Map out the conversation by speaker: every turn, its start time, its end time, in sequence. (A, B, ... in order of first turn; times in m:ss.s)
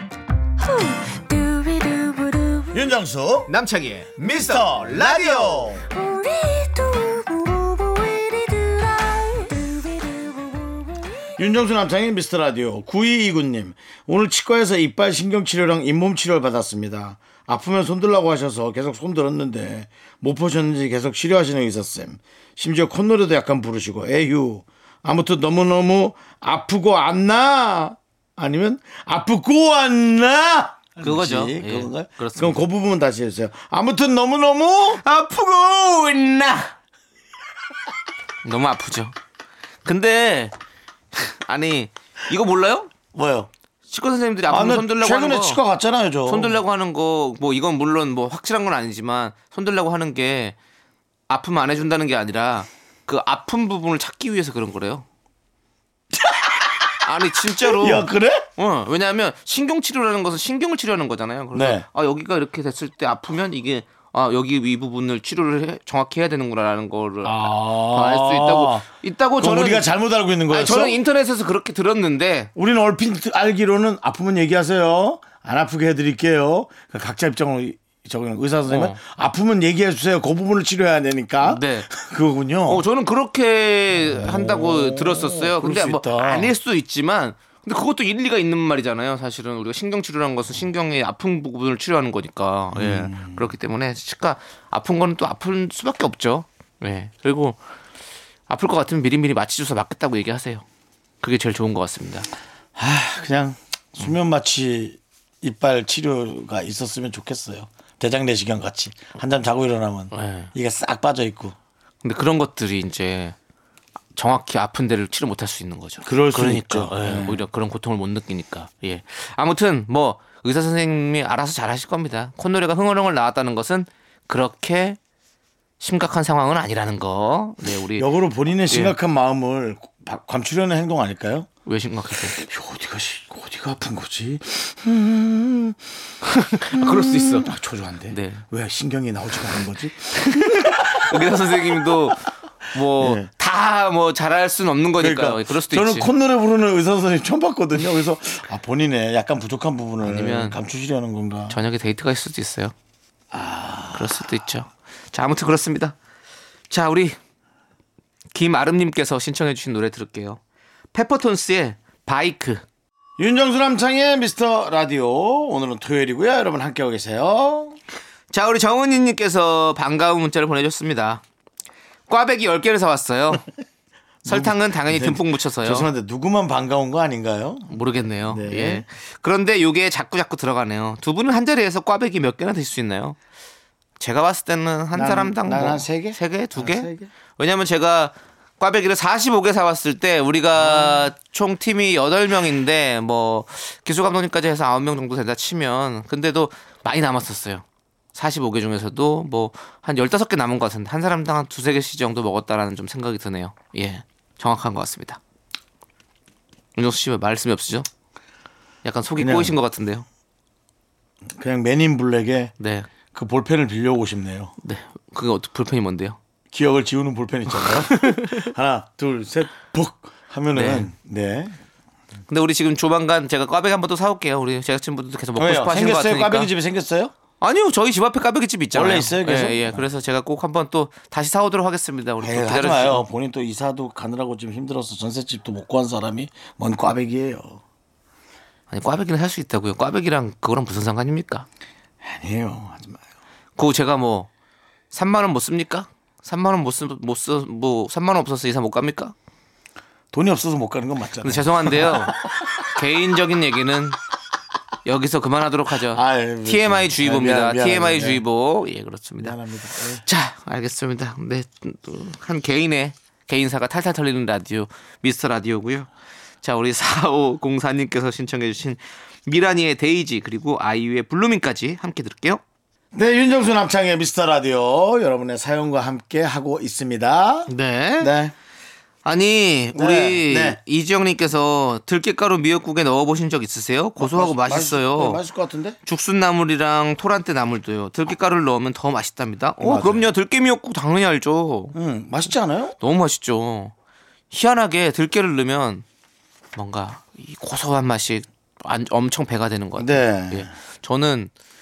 0:00.6-0:02.9 A
0:02.7-0:03.5 B
0:03.5-0:05.7 C
0:04.2-0:05.9 B
0:05.9-0:11.3 A
0:11.4-0:35.0 B
0:31.0-0:32.6 C
0:35.0-0:36.7 C
0:38.4-0:39.1 C
0:39.8-0:40.5 C
0:41.2-0:42.9 C
0:43.1-0:43.5 B
0:43.9-0:45.6 C
0:44.5-0:46.6 B
0:46.3-0:50.6 C
0:51.3-0:55.0 C
0:56.2-0:56.9 B
0:57.0-1:09.9 C
0:57.5-0:58.5 B
1:01.5-1:01.9 B
1:07.2-1:08.9 B
1:09.4-1:11.0 B
1:10.5-1:12.5 C
1:12.6-1:22.8 B
1:18.7-1:19.0 C
1:21.4-1:21.9 C
1:22.7-1:37.6 C
1:23.9-1:26.5 B
1:32.7-1:33.5 B
1:38.5-1:40.6 C
1:41.2-1:42.3 C
1:42.8-1:51.6 B
1:50.1-1:50.5 C
1:52.0-1:53.4 C
1:54.2-2:05.0 C
1:56.0-1:57.4 B
2:05.8-2:08.1 C
2:08.0-2:11.5 B
2:08.7-2:09.0 C
2:11.7-2:12.4 C
2:12.3-2:15.8 B
2:16.3-2:17.5 C
2:16.7-2:22.1 B
2:18.1-2:18.4 C
2:20.2-2:26.1 C
2:23.0-2:23.3 B
2:25.0-2:31.6 B
2:30.0-2:30.6 C
2:31.5-2:32.7 C
2:33.3-2:34.4 B
2:33.9-2:36.0 C
2:36.7-2:37.2 C
2:38.3-2:40.4 C
2:40.9-2:42.6 C
2:43.2-2:47.8 B
2:48.3-2:51.2 C
2:52.1-2:53.5 C
2:54.2-2:58.9 B
2:54.3-2:55.9 C
2:57.7-3:03.2 C
3:04.0-3:25.2 C
3:04.9-3:07.1 B
3:10.6-3:11.1 B
3:26.8-3:27.9 C
3:28.8-3:30.0 C
3:29.2-3:29.6 B
3:31.3-3:32.5 B
3:32.6-3:32.9 C
3:33.1-3:34.5 B
3:34.6-3:36.2 C
3:36.5-3:41.6 B
3:37.5-3:38.5 C
3:40.5-3:40.9 C
3:42.3-3:46.5 C
3:45.4-3:47.1 B
3:47.4-3:53.1 C
3:48.7-3:49.9 B
3:52.2-3:57.6 B
3:58.7-4:01.5 C
4:02.0-4:03.0 B
4:03.6-4:04.3 C
4:04.9-4:09.1 C
4:10.1-4:12.5 B
4:11.2-4:14.0 C
4:14.8-4:19.4 C
4:15.9-4:18.2 B
4:19.2-4:20.0 B
4:20.0-4:25.9 C
4:26.4-4:32.4 C
4:32.9-4:38.3 B
4:37.5-4:38.1 C
4:39.0-4:45.2 C
4:39.7-4:40.6 B
4:44.0-4:45.8 B
4:45.8-4:51.8 C
4:49.6-4:50.1 B
4:51.7-4:52.8 B
4:52.8-4:53.7 C
4:54.3-4:55.8 C
4:56.6-5:01.3 C
4:59.8-5:00.5 B